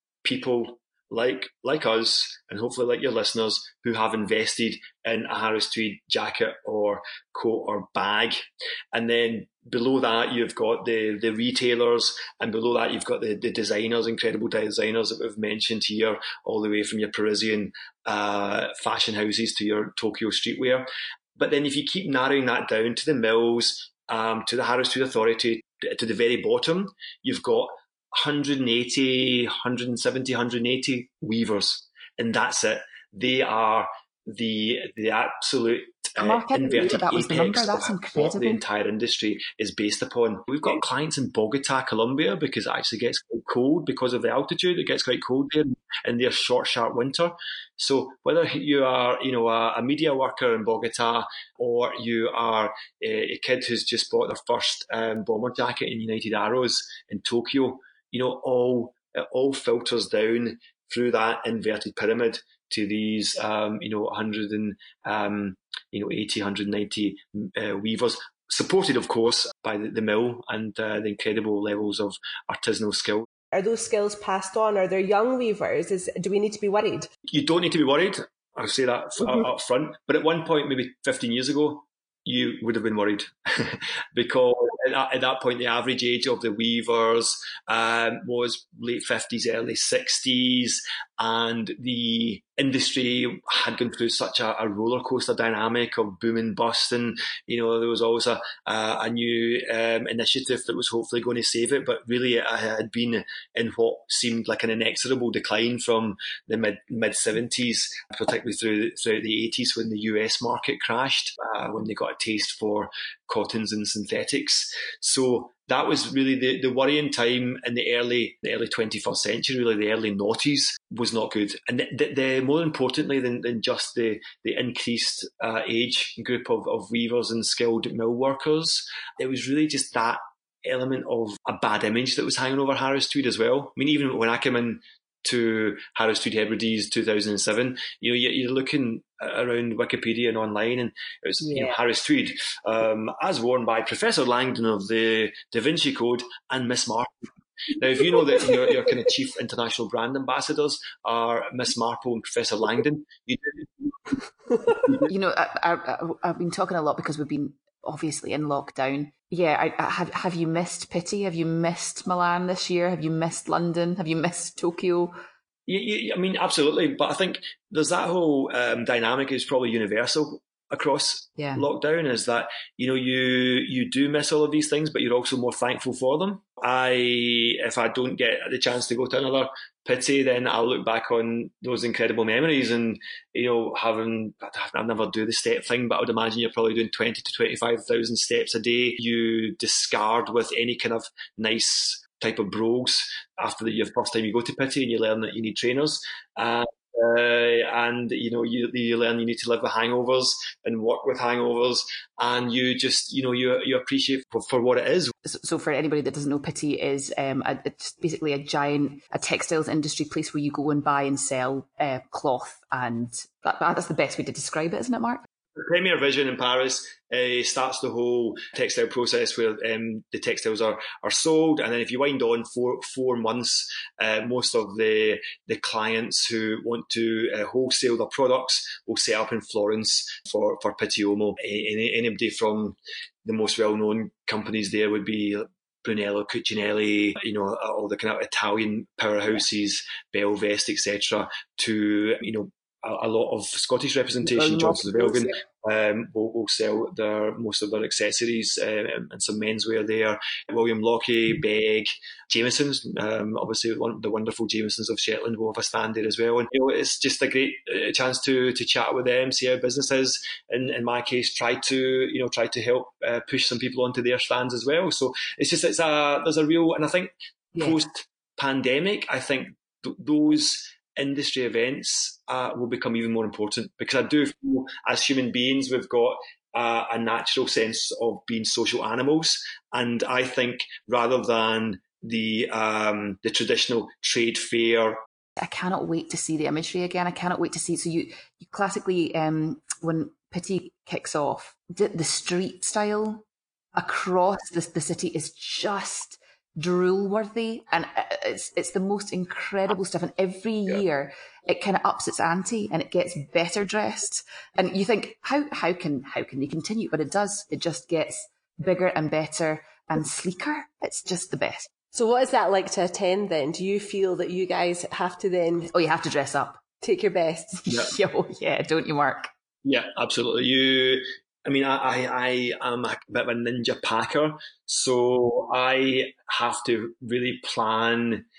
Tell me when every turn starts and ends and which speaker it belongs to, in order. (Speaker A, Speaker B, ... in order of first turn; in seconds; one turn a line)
Speaker A: 0.2-73.3
Speaker B: 36.2-38.6
Speaker C: 73.5-77.1
Speaker A: 77.3-153.9
Speaker B: 155.1-165.1
Speaker A: 165.7-205.1
Speaker B: 171.4-171.6
Speaker B: 205.2-215.2
Speaker A: 215.6-285.0
Speaker B: 244.3-245.2
Speaker B: 285.4-311.7
Speaker C: 311.9-315.7
Speaker B: 315.7-316.6
Speaker C: 316.8-317.6
Speaker B: 317.6-319.3
Speaker A: 319.6-328.2